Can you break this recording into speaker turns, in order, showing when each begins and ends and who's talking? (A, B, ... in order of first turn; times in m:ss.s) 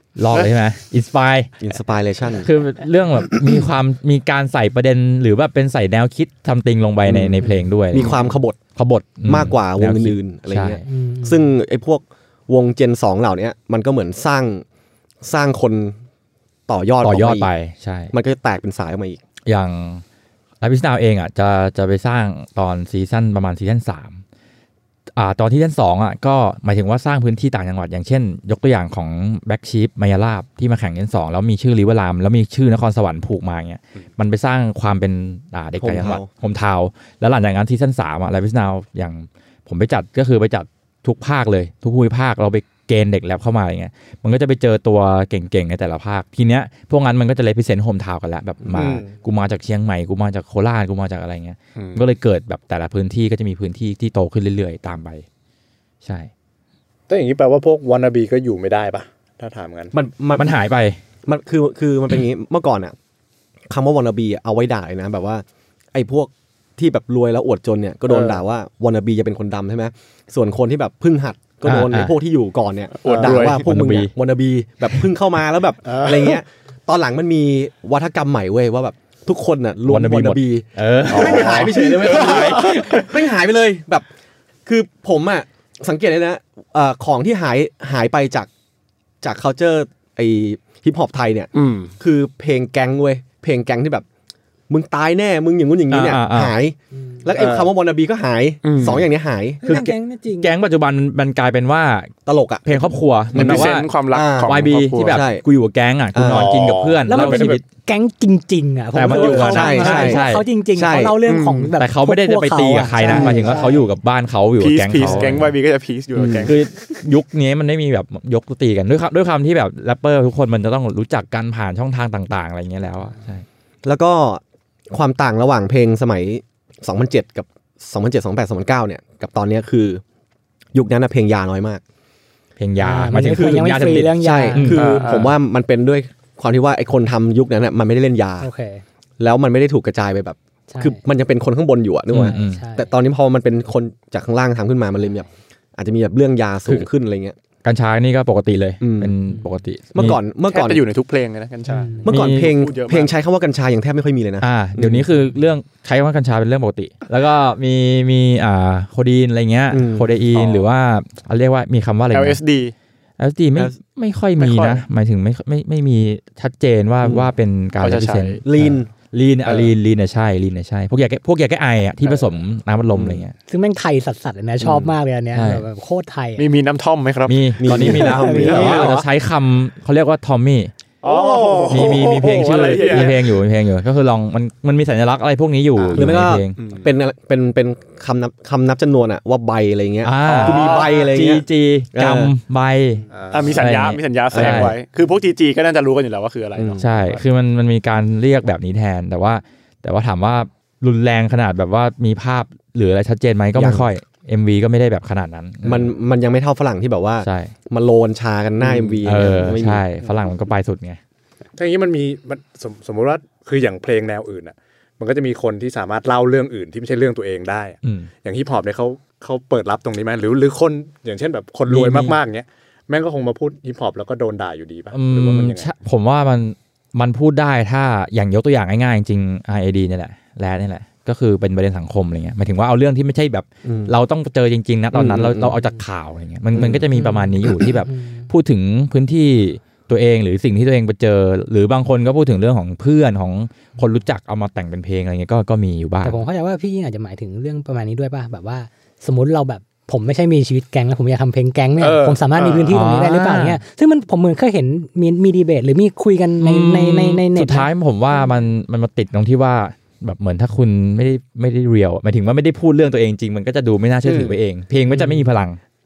0:00.2-0:01.6 A
0:01.6-0:02.5 B
0:02.4-0:08.2 A
0:07.1-0:08.6 B
0:08.8-0:10.8 A
0:09.3-0:14.6 B
0:10.9-0:11.5 C
0:15.2-0:16.0 B
0:16.7-0:17.5 B
0:17.0-0:18.1 A
0:18.1-0:19.2 B
0:19.5-0:20.0 A
0:20.6-0:24.2 A
0:25.2-0:55.2 A
0:35.8-0:36.3 B
0:48.7-0:49.1 D
0:56.0-0:56.3 A
0:57.1-0:59.9 D
0:59.9-1:00.6 B
1:00.4-1:01.0 A
1:01.3-1:03.0 B
1:03.7-1:24.1 B
1:08.1-1:08.4 D
1:11.6-1:12.1 A
1:13.0-1:13.6 E
1:13.1-1:13.3 D
1:13.2-1:14.1 A
1:15.9-1:16.4 D
1:19.9-1:22.8 A
1:21.1-1:23.0 E
1:24.7-1:28.5 B
1:29.2-1:34.0 B
1:31.5-1:31.9 E
1:34.7-1:39.6 B
1:35.9-1:36.5 A
1:37.0-1:37.2 C
1:37.4-1:37.7 D
1:38.6-1:39.0 E
1:39.6-1:40.5 C
1:39.6-1:42.1 A
1:42.3-1:42.8 B
1:42.6-1:43.9 A
1:43.3-1:45.4 B
1:43.3-1:45.3 E
1:44.4-1:47.6 A
1:46.1-1:46.6 B
1:46.2-1:47.6 D
1:47.1-1:53.9 C
1:48.9-1:50.5 A
1:49.1-1:51.2 B
1:51.2-1:51.7 E
1:51.8-1:55.5 A
1:53.0-1:53.6 B
1:54.6-1:56.6 E
1:56.2-1:56.5 B
1:56.4-2:03.4 A
2:03.8-2:10.0 B
2:10.7-2:11.8 B
2:12.6-2:14.9 A
2:12.8-2:15.2 C
2:13.2-2:18.5 B
2:14.7-2:15.4 E
2:18.4-2:18.8 C
2:19.2-2:27.4 B
2:20.7-2:21.0 C
2:22.1-2:22.6 A
2:22.2-2:22.9 C
2:25.0-2:25.3 C
2:27.6-2:30.2 A
2:28.8-2:29.1 B
2:29.3-2:29.6 C
2:29.9-2:30.8 B
2:30.5-2:33.1 E
2:31.7-2:32.1 C
2:32.0-2:35.1 B
2:32.1-2:32.5 A
2:34.4-2:42.4 A
2:39.7-2:40.1 B
2:40.3-2:40.7 E
2:42.1-2:42.7 E
2:43.2-2:53.3 A
2:44.4-2:44.8 E
2:47.0-2:47.3 B
2:47.8-2:48.4 E
2:48.4-2:48.9 B
2:49.5-2:49.7 E
2:52.9-2:53.2 B
2:53.5-2:56.5 C
2:55.3-2:55.6 A
2:56.4-2:58.9 E
2:57.3-3:00.7 A
2:57.6-2:59.0 B
2:57.8-2:59.0 C
3:01.0-3:03.2 E
3:01.0-3:03.1 D
3:01.7-3:06.6 A
3:05.8-3:06.9 E
3:06.0-3:12.3 B
3:10.0-3:14.8 A
3:10.2-3:11.0 E
3:13.1-3:13.7 D
3:13.3-3:17.2 E
3:14.3-3:14.8 B
3:16.6-3:16.8 B
3:16.8-3:25.9 A
3:23.6-3:23.9 B
3:25.6-3:29.8 B
3:27.2-3:27.5 A
3:29.0-3:31.0 A
3:31.6-3:45.7 D
3:37.8-3:38.1 A
3:41.7-3:42.2 A
3:44.9-4:06.2 A
3:53.6-3:53.9 B
3:54.9-3:55.6 B
3:56.6-3:56.9 B
3:56.9-3:58.3 C
4:06.0-4:18.4 C
4:11.8-4:12.7 D
4:12.7-4:13.6 A
4:16.4-4:25.6 A
4:25.0-4:25.2 C